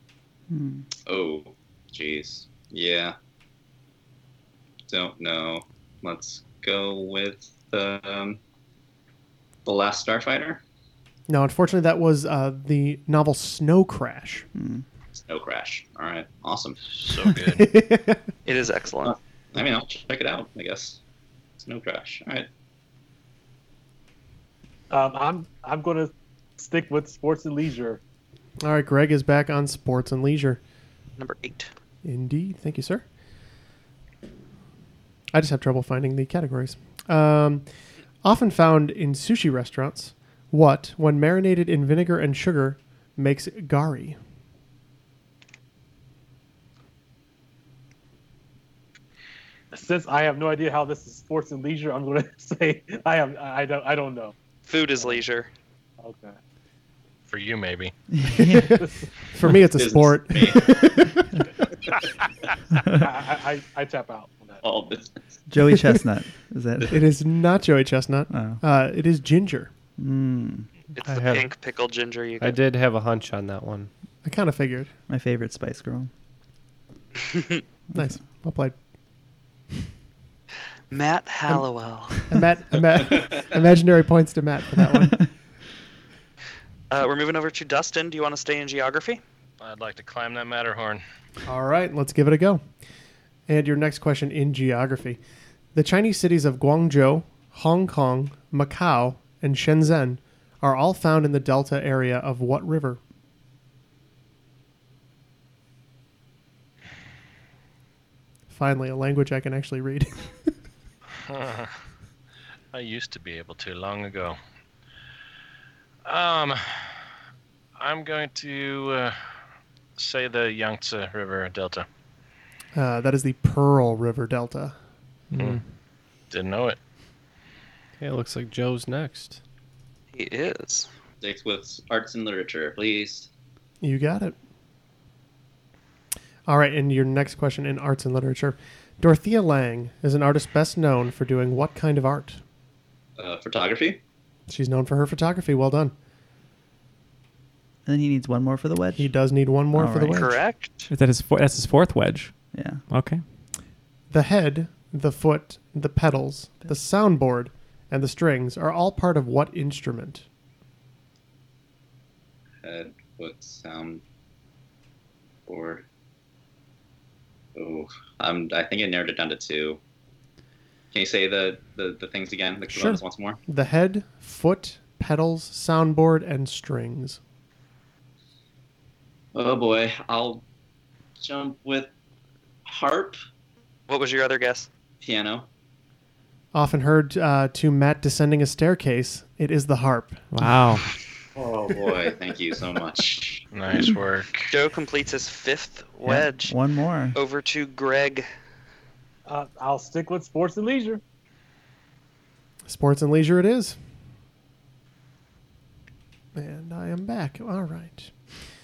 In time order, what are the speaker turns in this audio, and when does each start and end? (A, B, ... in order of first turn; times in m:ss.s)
0:00.5-0:00.9 A
0:01.0-0:03.1 B
0:04.9-0:08.4 B
0:09.6-0:10.6 B
0:11.3-0:14.5 C
0:14.5-0:14.8 A
0:15.1-0:16.8 B
0:16.9-0:17.6 D
0:17.5-0:18.3 C
0:18.4-0:19.2 E
0:19.0-0:21.0 B
0:21.6-0:22.5 B
0:24.9-0:28.0 F
0:28.6-0:30.6 C
0:31.2-0:31.7 E
0:32.0-0:33.0 C
0:35.3-0:37.6 C
0:38.2-0:44.2 C
0:49.7-0:54.3 F
0:54.6-0:55.5 E
0:55.0-0:55.2 F
0:56.0-0:56.4 F
0:57.3-0:57.9 D
0:58.1-0:58.8 A
0:58.4-1:01.2 C
0:59.7-1:01.0 B
1:02.8-1:03.0 A
1:03.0-1:04.6 F
1:04.6-1:05.2 B
1:05.5-1:07.0 A
1:06.9-1:09.7 C
1:08.3-1:08.6 A
1:10.0-1:10.7 A
1:11.0-1:12.6 E
1:11.0-1:11.5 G
1:12.4-1:13.9 G
1:14.2-1:14.9 C
1:15.1-1:16.1 A
1:17.2-1:17.6 E
1:17.9-1:18.8 C
1:20.9-1:22.2 E
1:22.3-1:25.2 C
1:26.9-1:29.2 E
1:29.6-1:31.0 D
1:31.4-1:32.6 C
1:33.5-1:35.2 C
1:35.7-1:43.0 C
1:48.5-1:50.3 C
1:51.3-1:51.8 D
1:52.7-1:54.4 D
1:56.0-1:57.1 D
1:57.8-1:59.2 D
2:00.0-2:01.8 D
2:02.7-2:04.8 C
2:06.3-2:06.8 D
2:08.0-2:09.4 G
2:10.1-2:10.9 E
2:11.2-2:13.3 B
2:13.8-2:14.4 C
2:16.5-2:22.4 C
2:23.2-2:24.0 B
2:24.5-2:25.9 C
2:27.8-2:29.1 A
2:28.9-2:30.4 C
2:29.7-2:30.3 A
2:30.0-2:30.9 E
2:30.9-2:33.2 H
2:32.5-2:32.8 A
2:34.1-2:40.2 C
2:42.6-2:44.0 B
2:45.5-2:45.8 B
2:47.6-2:49.8 B
2:50.9-2:53.4 B
2:52.7-2:57.2 C
2:59.3-3:00.4 B
3:01.2-3:01.9 B
3:02.6-3:03.2 B
3:03.9-3:04.7 E
3:05.0-3:05.5 B
3:06.5-3:10.2 C
3:10.3-3:10.8 H
3:11.4-3:13.4 B
3:13.5-3:14.5 D
3:14.5-3:16.5 E
3:16.0-3:17.2 A
3:17.1-3:18.3 E
3:19.3-3:21.0 F
3:22.6-3:23.8 C
3:26.3-3:28.1 C